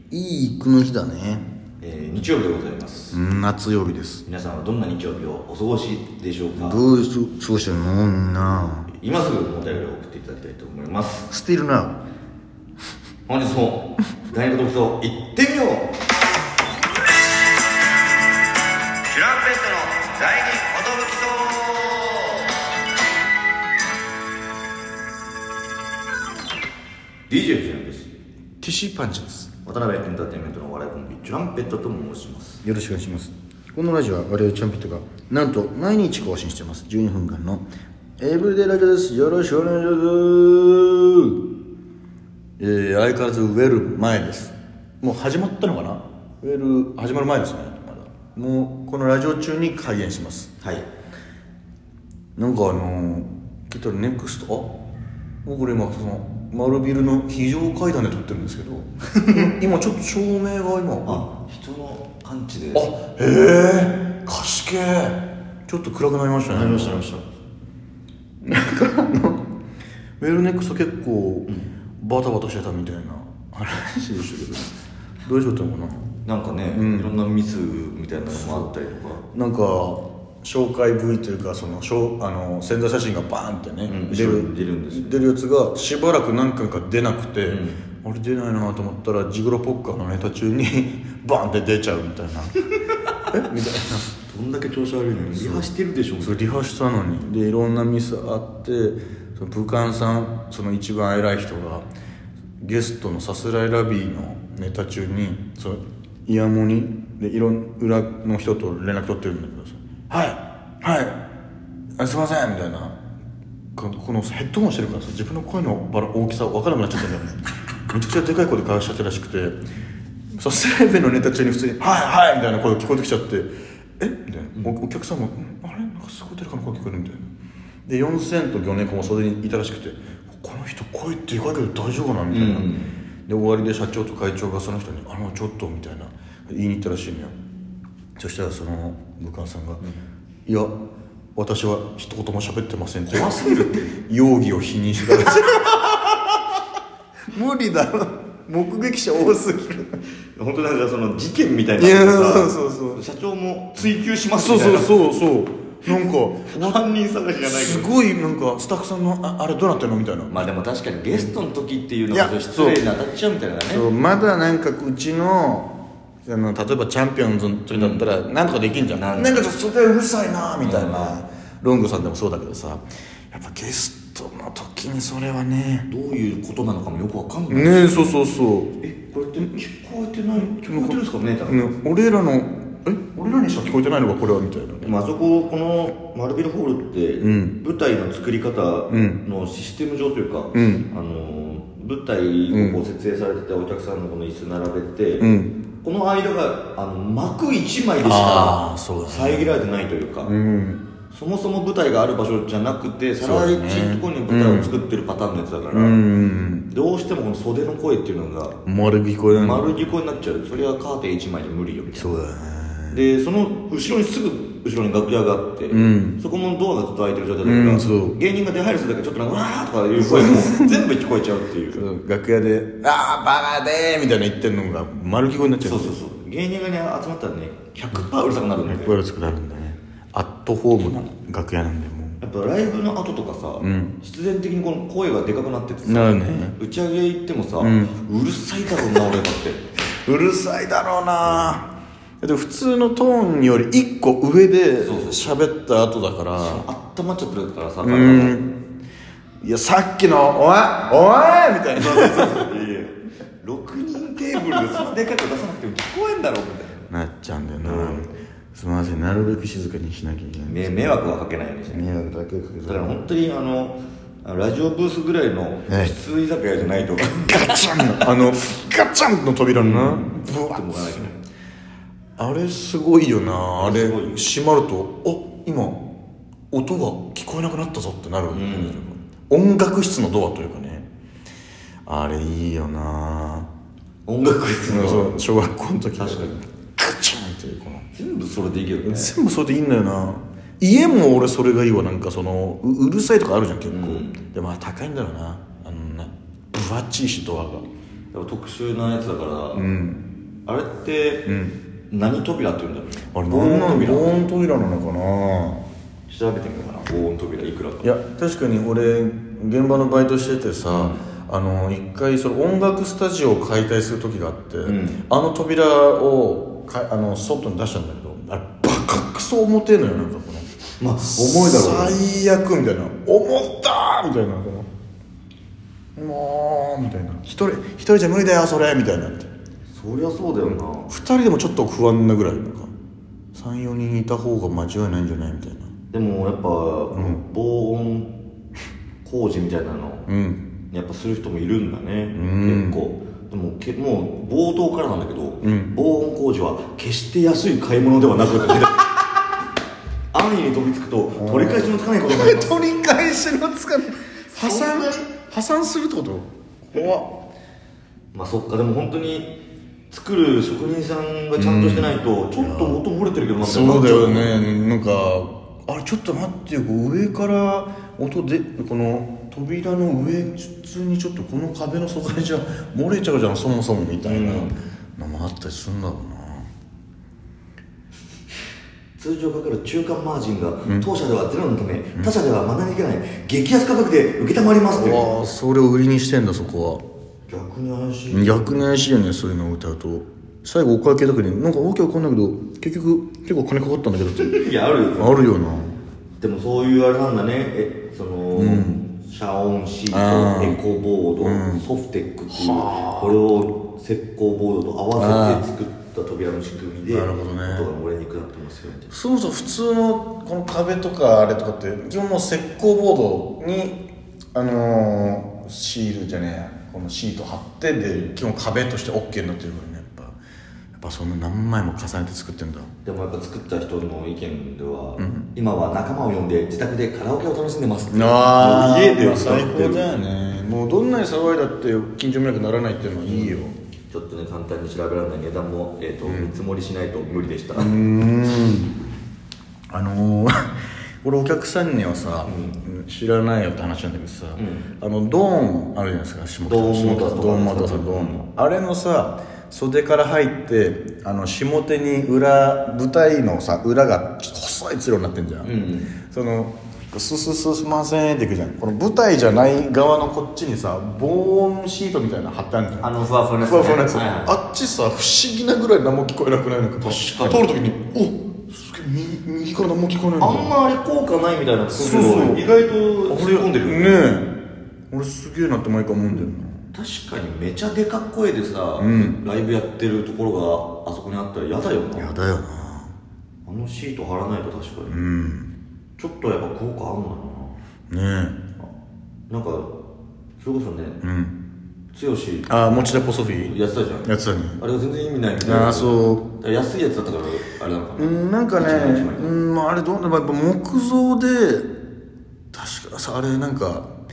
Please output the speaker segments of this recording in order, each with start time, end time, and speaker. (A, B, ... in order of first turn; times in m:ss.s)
0:00.1-0:01.5 A
0:01.8-0:03.2 B
0:03.1-0:04.2 A
0:04.2-0:06.8 B
0:06.6-0:08.9 A
0:08.9-0:11.3 B
0:11.3-0:12.0 A
0:13.3-0:16.0 B
0:19.1-0:22.5 B
0:27.3-0:28.1 B
0:28.6-0:29.5 A
0:29.6-0:32.6 B
0:32.6-0:37.7 A
0:38.2-0:41.4 A
0:42.6-0:50.5 A
0:50.6-0:50.9 B
0:52.4-0:54.8 A
0:55.4-1:01.2 A
1:01.0-1:02.9 B
1:02.7-1:07.1 A
1:06.5-1:07.3 B
1:08.4-1:09.4 A
1:10.2-1:14.7 A
1:15.2-1:16.1 A
1:16.2-1:19.2 B
1:16.7-1:17.2 A
1:18.3-1:18.7 A
1:19.3-1:32.6 A
1:23.9-1:25.2 B
1:27.5-1:27.8 B
1:33.3-1:34.1 A
1:34.2-1:36.6 B
1:35.3-1:35.7 A
1:36.2-1:41.9 A
1:42.6-1:51.2 A
1:52.0-1:53.0 A
1:53.8-1:59.6 A
2:00.3-2:07.3 A
2:07.9-2:12.7 A
2:12.3-2:13.0 B
2:13.3-2:17.3 A
2:18.2-2:19.8 A
2:20.5-2:20.7 A
2:21.4-2:26.4 A
2:23.1-2:23.9 B
2:27.3-2:30.0 A
2:30.4-2:35.0 B
2:31.8-2:33.0 A
2:34.4-2:36.8 A
2:35.9-2:38.0 B
2:37.4-2:40.5 A
2:40.3-2:43.9 B
2:42.1-2:42.8 A
2:43.7-2:45.7 A
2:46.2-2:55.9 A
2:47.7-2:48.1 B
2:48.9-2:49.5 B
2:50.6-2:51.2 B
2:55.9-2:58.2 B
2:57.5-2:58.7 A
2:58.8-3:01.6 B
3:00.4-3:05.0 A
3:04.8-3:15.3 B
3:07.2-3:07.6 A
3:08.9-3:09.2 A
3:10.5-3:10.9 A
3:12.5-3:12.8 A
3:15.2-3:15.6 A
3:15.8-3:20.3 B
3:18.0-3:19.7 A
3:20.2-3:20.8 A
3:21.1-3:26.0 B
3:23.2-3:24.7 A
3:25.7-3:26.7 A
3:26.7-3:28.6 B
3:28.6-3:29.7 A
3:29.3-3:32.2 B
3:31.9-3:33.0 A
3:32.9-3:41.8 B
3:35.7-3:36.2 A
3:37.4-3:38.2 A
3:40.0-3:40.8 A
3:41.7-3:46.0 A
3:45.6-3:49.0 B
3:48.7-3:52.2 A
3:52.2-3:59.7 B
3:53.6-3:54.0 A
3:55.8-3:56.6 A
3:57.6-3:58.0 A
4:00.0-4:01.7 A
4:02.2-4:06.7 A
4:04.8-4:05.4 B
4:06.4-4:08.4 B
4:07.8-4:08.5 A
4:09.4-4:12.5 A
4:11.8-4:16.9 B
4:16.9-4:20.7 A
4:17.6-4:18.1 B
4:20.5-4:21.9 B
4:21.7-4:23.0 A
4:22.6-4:28.1 B
4:25.7-4:26.0 A
4:27.3-4:31.1 A
4:29.5-4:31.2 B
4:32.2-4:35.9 A
4:33.6-4:34.3 B
4:36.5-4:40.9 A
4:38.3-4:38.8 B
4:41.9-4:43.5 A
4:44.1-4:45.2 B
4:44.7-4:47.9 A
4:46.0-4:46.4 B
4:47.9-4:49.2 B
4:48.8-4:57.6 A
4:53.7-4:54.2 B
4:58.1-4:59.6 B
4:59.5-5:00.1 A
5:00.5-5:01.3 B
5:01.3-5:01.6 A
5:01.9-5:04.2 B
5:03.1-5:05.6 A
5:06.1-5:07.9 B
5:07.8-5:24.7 A
5:10.7-5:11.0 B
5:14.6-5:15.0 B
5:20.8-5:22.0 B
5:26.0-5:29.3 A
5:29.7-5:30.9 B
5:30.5-5:32.7 A
5:33.3-5:35.7 A
5:35.9-5:38.2 B
5:36.9-5:37.2 A
5:39.0-5:40.1 B
5:40.1-5:40.5 A
5:40.7-5:48.8 B
5:42.1-5:42.8 A
5:45.4-5:45.7 A
5:50.1-5:52.7 B
5:51.2-5:57.2 A
5:54.3-5:55.0 B
5:58.1-5:59.4 B
5:59.9-6:04.4 B
6:01.4-6:02.8 A
6:03.4-6:16.5 A
6:14.0-6:14.6 B
6:19.0-6:25.1 B
6:24.7-6:26.8 A
6:27.3-6:28.6 B
6:28.1-6:34.4 A
6:34.2-6:35.2 B
6:35.0-6:35.8 A
6:36.2-6:48.9 B
6:38.3-6:38.8 A
6:39.9-6:40.6 A
6:41.2-6:41.7 A
6:42.3-6:43.2 A
6:45.0-6:45.4 A
6:46.9-6:47.7 A
6:48.9-6:53.8 A
6:54.3-7:00.2 A
7:00.8-7:02.7 A
7:02.8-7:10.0 B
7:05.0-7:05.3 A
7:07.9-7:13.6 A
7:13.1-7:17.8 B
7:16.0-7:16.4 A
7:17.6-7:18.8 A
7:19.7-7:50.6 A
7:22.3-7:22.6 B
7:24.4-7:24.7 B
7:26.5-7:28.3 B
7:35.4-7:35.9 B
7:42.8-7:44.4 B
7:46.8-7:47.5 B
7:50.2-7:54.1 B
7:51.7-7:52.5 A
7:53.1-7:54.3 A
7:54.9-7:56.7 A
7:56.7-8:02.1 B
7:58.8-7:59.2 A
8:02.0-8:03.0 A
8:03.4-8:05.0 B
8:04.9-8:05.5 A
8:06.0-8:07.6 B
8:07.9-8:08.4 A
8:09.3-8:09.7 B
8:10.4-8:11.0 B
8:11.0-8:11.4 A
8:11.9-8:12.6 B
8:12.5-8:14.6 A
8:13.3-8:19.3 B
8:15.4-8:16.3 A
8:18.0-8:21.7 A
8:22.5-8:23.9 A